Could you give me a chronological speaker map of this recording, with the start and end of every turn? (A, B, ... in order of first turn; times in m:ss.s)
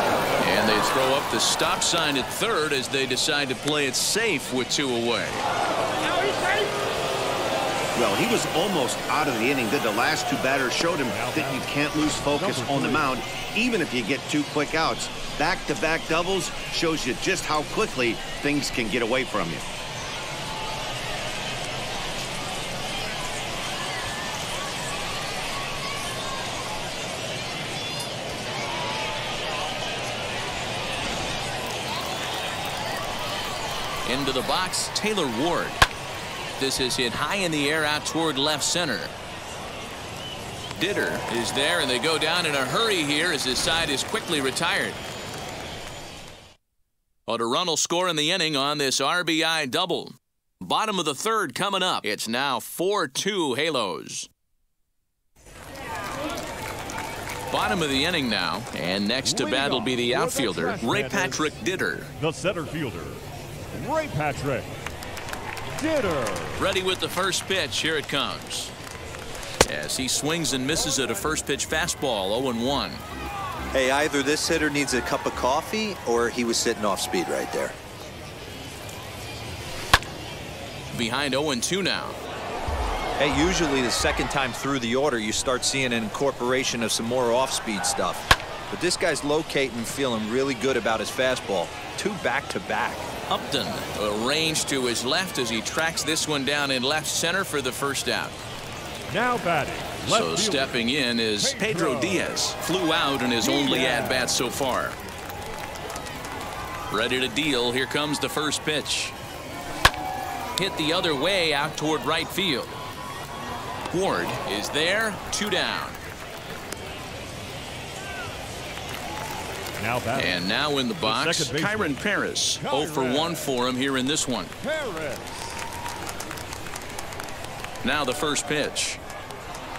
0:00.4-0:05.4 A
0:07.9-0:19.6 B
0:11.0-0:13.2 C
0:34.0-0:35.8 A
0:36.6-0:39.1 A
0:40.7-0:45.0 A
0:47.3-0:54.3 A
0:57.5-1:02.1 A
0:59.2-1:01.6 C
1:02.2-1:04.8 C
1:05.7-1:06.6 C
1:06.5-1:08.7 A
1:09.6-1:13.0 A
1:13.7-1:17.8 D
1:20.9-1:22.2 A
1:23.2-1:33.1 D
1:33.3-1:38.4 A
1:39.1-1:40.8 C
1:40.1-1:45.0 A
1:41.4-1:42.3 C
1:43.4-1:44.5 C
1:46.9-1:49.1 A
1:50.6-1:52.8 A
1:53.9-1:56.0 A
1:59.8-2:00.4 C
2:00.2-2:04.5 A
2:01.0-2:02.0 C
2:02.6-2:03.5 C
2:04.6-2:05.6 C
2:07.8-2:09.0 A